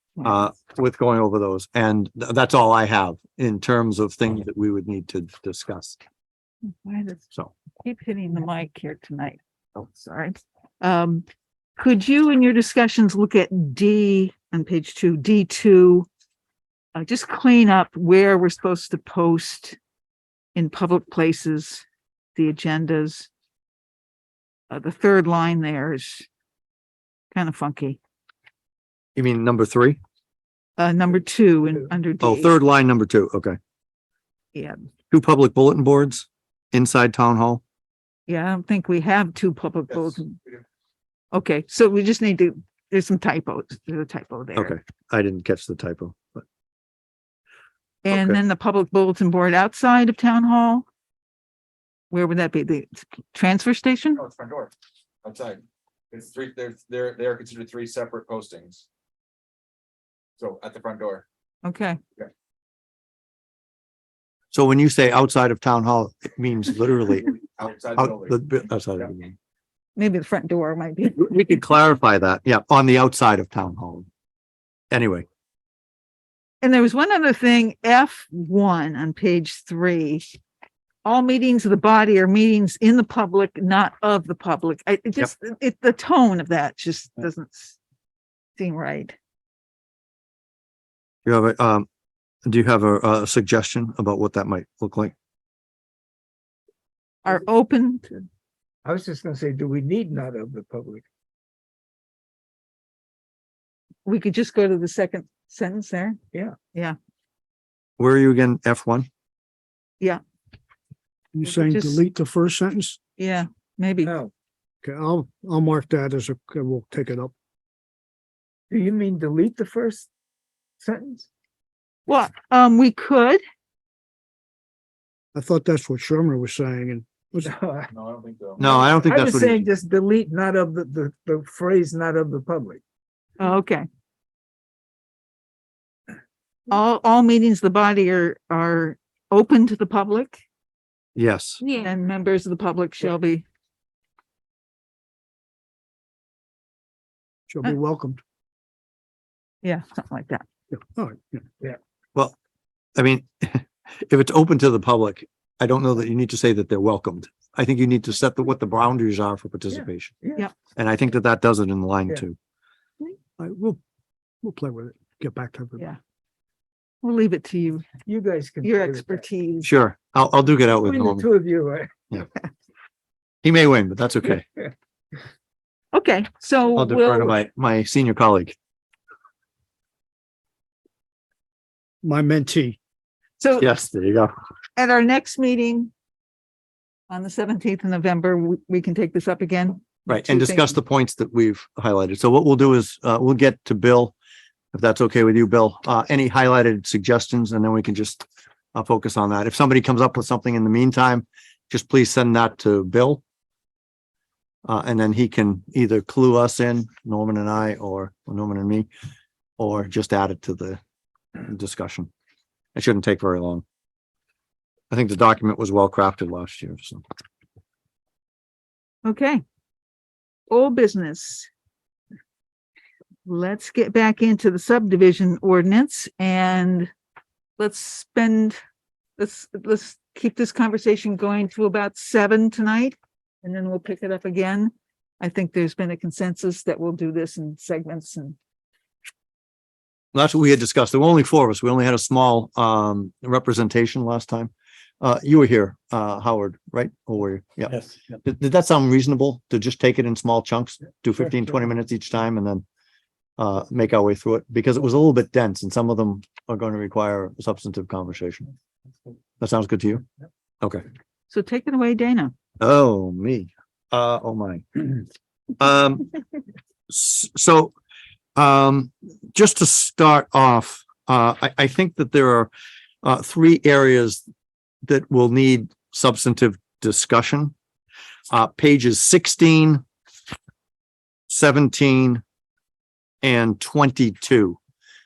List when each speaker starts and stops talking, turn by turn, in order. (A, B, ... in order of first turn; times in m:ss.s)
0:00.2-0:06.0 A
0:06.6-0:07.2 B
0:07.8-0:11.3 B
0:11.8-0:16.1 B
0:17.0-0:19.8 B
0:20.6-0:21.8 B
0:22.4-0:23.3 B
0:24.7-0:26.3 B
0:27.3-0:28.0 B
0:29.2-0:30.0 A
0:30.8-0:32.5 B
0:32.2-0:33.6 A
0:34.5-0:34.8 B
0:35.1-0:37.6 A
0:38.3-0:40.4 B
0:41.3-0:44.8 B
0:44.6-0:46.4 A
0:48.0-0:50.8 B
0:48.1-0:48.4 A
0:52.1-0:54.2 B
0:54.2-0:54.7 C
0:55.2-0:55.6 C
0:56.1-0:58.9 C
1:00.4-1:01.2 C
1:01.6-1:02.0 B
1:04.5-1:07.3 A
1:07.3-1:08.4 C
1:08.0-1:09.4 A
1:10.0-1:11.3 B
1:11.1-1:14.1 A
1:14.9-1:15.3 A
1:16.6-1:20.2 B
1:21.0-1:27.8 B
1:28.6-1:29.2 B
1:31.2-1:31.9 A
1:32.5-1:35.1 A
1:37.2-1:38.3 B
1:38.8-1:41.0 D
1:44.0-1:46.2 B
1:48.0-1:49.1 A
1:51.3-1:53.0 E
1:51.4-1:52.0 B
1:53.2-1:54.1 B
1:54.0-1:54.3 D
1:54.8-1:57.3 E
1:58.7-2:00.1 D
2:00.8-2:01.3 D
2:02.1-2:03.4 B
2:05.3-2:07.5 E
2:07.4-2:07.9 D
2:07.9-2:08.6 C
2:08.6-2:09.7 A
2:08.6-2:12.8 D
2:13.4-2:13.9 B
2:16.7-2:20.4 B
2:21.2-2:21.6 A
2:21.7-2:23.4 B
2:27.5-2:28.2 E
2:29.6-2:30.4 B
2:30.7-2:31.4 E
2:33.0-2:40.2 A
2:39.7-2:40.5 D
2:40.8-2:42.4 A
2:43.4-2:43.8 E
2:44.4-2:45.9 E
2:47.0-2:47.9 B
2:48.1-2:49.2 D
2:48.6-2:49.7 B
2:49.6-2:51.3 A
2:50.8-2:52.0 D
2:53.4-2:54.5 A
2:55.9-2:57.4 B
2:56.8-2:58.6 A
3:02.0-3:02.8 E
3:03.4-3:03.7 B
3:03.6-3:04.3 A
3:04.8-3:05.9 B
3:07.1-3:10.8 B
3:10.1-3:14.1 A
3:14.7-3:23.2 A
3:24.7-3:28.9 A
3:29.6-3:30.8 A
3:31.4-3:32.1 A
3:32.8-3:33.6 A
3:34.9-3:37.0 A
3:39.0-3:39.4 B
3:40.5-3:41.5 B
3:43.3-3:46.9 B
3:47.6-3:48.6 B
3:49.2-3:58.4 B
4:00.1-4:12.6 A
4:13.4-4:18.5 A
4:19.4-4:20.0 A
4:21.3-4:22.3 B
4:22.6-4:25.0 A
4:25.6-4:26.1 A
4:26.9-4:27.7 A
4:28.4-4:32.5 A
4:33.0-4:34.2 A
4:34.8-4:37.5 A
4:38.3-4:39.8 A
4:41.3-4:42.2 A
4:43.2-4:44.6 A